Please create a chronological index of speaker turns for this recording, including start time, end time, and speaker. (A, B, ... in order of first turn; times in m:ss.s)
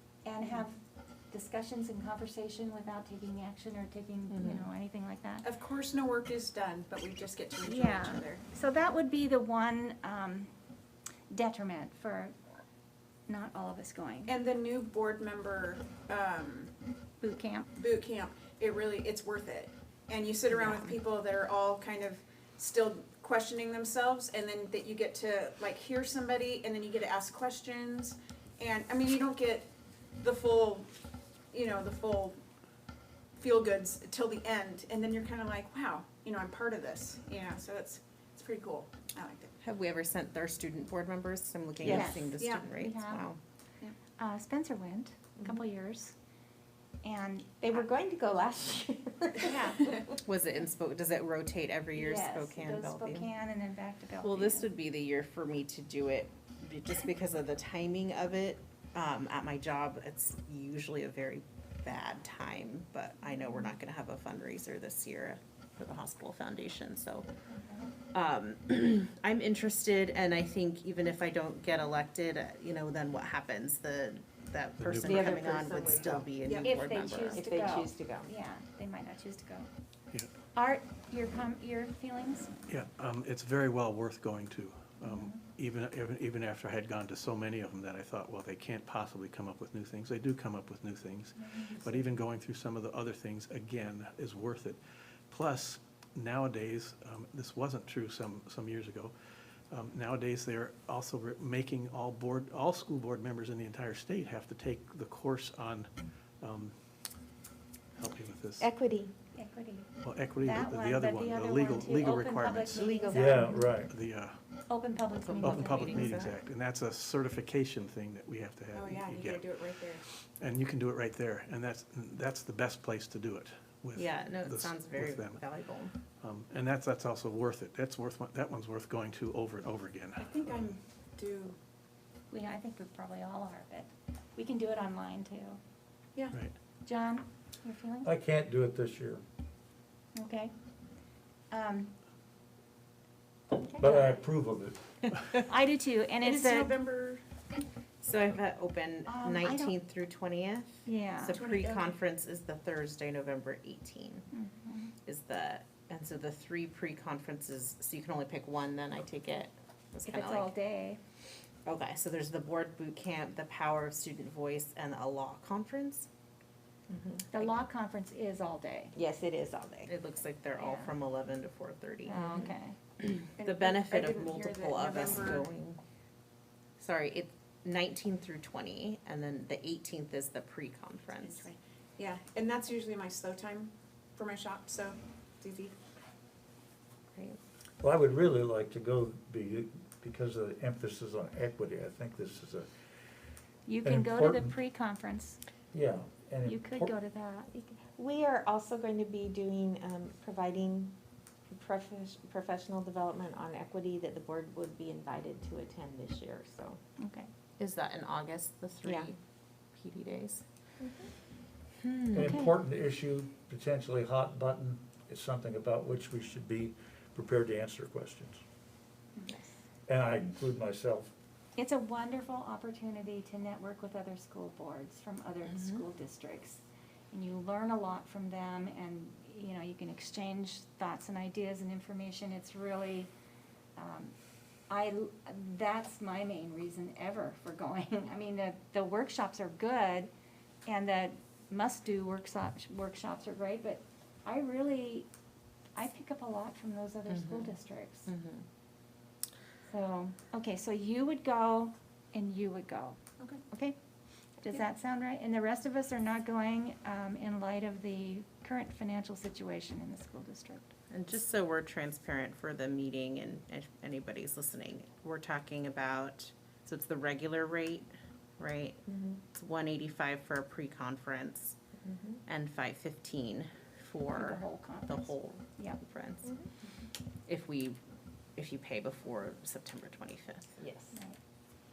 0:00.2-0:00.8 A
0:01.3-0:05.5 A
0:04.3-0:04.6 B
0:05.4-0:08.4 C
0:07.7-0:10.5 A
0:11.3-0:12.4 A
0:13.3-0:14.4 A
0:14.2-0:16.8 C
0:17.2-0:17.7 A
0:17.8-0:30.9 C
0:20.5-0:21.0 B
0:31.5-0:32.4 C
0:33.4-0:39.6 C
0:39.6-0:43.4 B
0:41.8-0:43.2 A
0:41.9-0:42.7 C
0:44.2-0:46.2 A
0:47.0-0:47.9 A
0:47.6-0:50.2 D
0:49.5-0:49.9 A
0:50.2-0:53.3 B
0:52.0-0:54.7 A
0:54.2-1:07.3 B
1:07.5-1:07.9 A
1:08.1-1:17.4 B
1:14.8-1:15.2 E
1:15.0-1:16.3 D
1:16.6-1:19.7 A
1:17.3-1:18.3 D
1:20.5-1:22.5 A
1:22.7-1:39.1 E
1:25.0-1:25.4 A
1:31.4-1:32.1 A
1:39.7-1:46.8 E
1:48.0-1:48.7 E
1:48.6-1:49.1 D
1:49.3-1:53.8 A
1:50.0-1:52.9 E
1:52.7-1:53.5 D
1:53.1-1:53.9 F
1:53.7-1:54.4 E
1:54.7-1:56.3 A
1:55.2-1:56.4 B
1:55.4-2:05.4 E
1:58.7-2:00.0 C
2:04.0-2:05.9 B
2:06.2-2:10.6 E
2:10.2-2:11.6 C
2:12.3-2:15.6 A
2:16.8-2:18.1 A
2:18.0-2:19.2 F
2:20.2-2:20.5 A
2:21.5-2:22.0 A
2:23.8-2:24.8 F
2:23.8-2:24.2 A
2:25.4-2:26.7 A
2:26.2-2:27.2 C
2:28.0-2:34.3 B
2:29.1-2:29.8 A
2:30.8-2:31.4 A
2:31.3-2:32.0 C
2:34.3-2:34.9 A
2:35.0-2:40.5 B
2:40.1-2:41.0 A
2:41.7-2:46.1 B
2:46.9-2:47.2 D
2:47.3-2:48.9 A
2:49.0-2:49.9 D
2:49.8-2:52.5 B
2:50.6-2:50.9 A
2:52.1-2:52.8 A
2:53.0-2:55.8 B
2:53.4-2:55.5 C
2:56.8-3:01.5 B
3:01.2-3:05.8 C
3:07.8-3:12.7 F
3:13.7-3:15.4 A
3:13.8-3:14.5 F
3:15.7-3:16.9 F
3:16.4-3:17.5 A
3:17.5-3:20.9 D
3:21.5-3:26.8 D
3:27.0-3:27.3 A
3:27.6-3:29.2 B
3:29.7-3:30.4 B
3:30.8-3:31.1 D
3:32.1-3:38.4 F
3:39.9-3:41.1 F
3:41.6-3:53.1 A
3:53.8-3:54.2 A
3:54.7-4:00.1 A
4:00.7-4:05.1 A
4:05.8-4:08.1 A
4:07.1-4:07.6 B
4:08.1-4:08.4 B
4:09.6-4:13.8 A
4:13.2-4:13.4 C
4:14.4-4:20.7 A
4:20.9-4:31.6 B
4:31.9-4:32.2 D
4:32.3-4:36.3 B
4:34.1-4:35.8 A
4:37.3-4:37.8 B
4:38.4-4:40.6 B
4:40.6-4:40.9 D
4:40.9-4:41.2 A